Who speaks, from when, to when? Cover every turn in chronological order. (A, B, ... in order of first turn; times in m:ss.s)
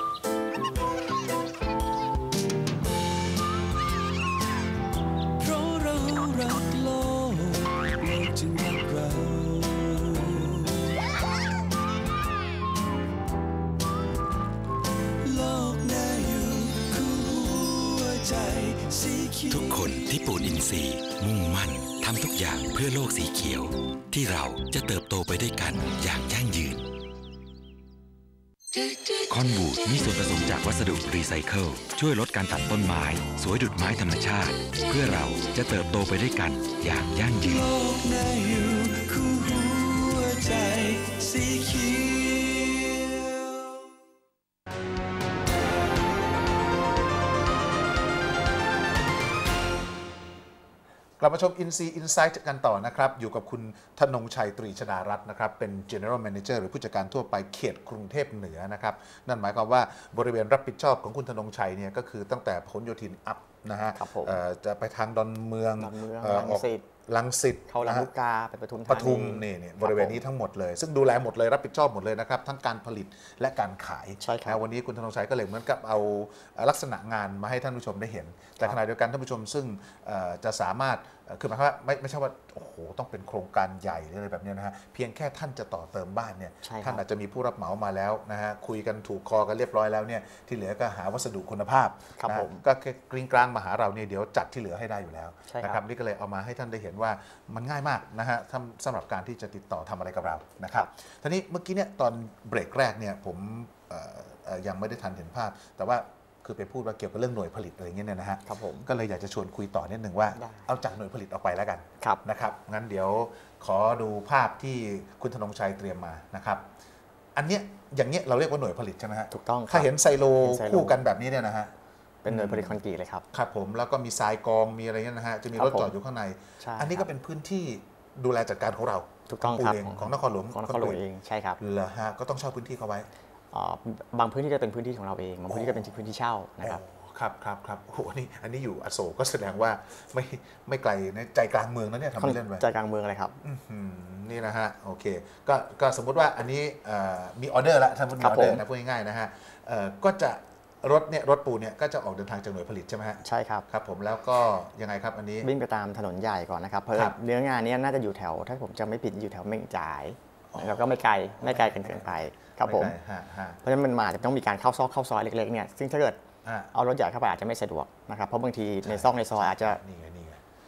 0:05.4-0:10.9 A
0:15.2-0:19.8 A
0:19.5-0:26.8 B
0:28.8-0:37.7 B
0:37.4-0:43.7 A
0:51.2-1:08.1 C
1:04.0-1:04.4 D
1:05.8-1:06.9 D
1:07.7-1:10.2 D
1:08.9-1:56.6 C
1:14.2-1:14.6 D
1:26.6-1:27.0 D
1:32.2-1:32.6 D
1:35.5-1:35.8 D
1:48.4-1:48.9 D
1:50.4-1:50.7 D
1:57.4-2:01.7 C
1:59.3-2:01.0 D
2:02.2-2:03.2 D
2:02.2-2:02.8 C
2:03.3-2:11.0 C
2:05.5-2:05.9 D
2:06.6-2:07.1 D
2:09.3-2:11.6 D
2:11.6-2:13.1 C
2:13.5-2:16.8 D
2:15.5-2:15.9 C
2:16.6-2:22.6 C
2:22.2-2:23.4 D
2:23.4-2:35.5 C
2:28.2-2:28.6 D
2:33.2-2:33.6 D
2:35.4-2:42.9 D
2:40.5-2:43.6 C
2:43.6-2:46.2 D
2:46.4-2:46.7 C
2:46.7-2:49.8 D
2:48.8-2:50.4 C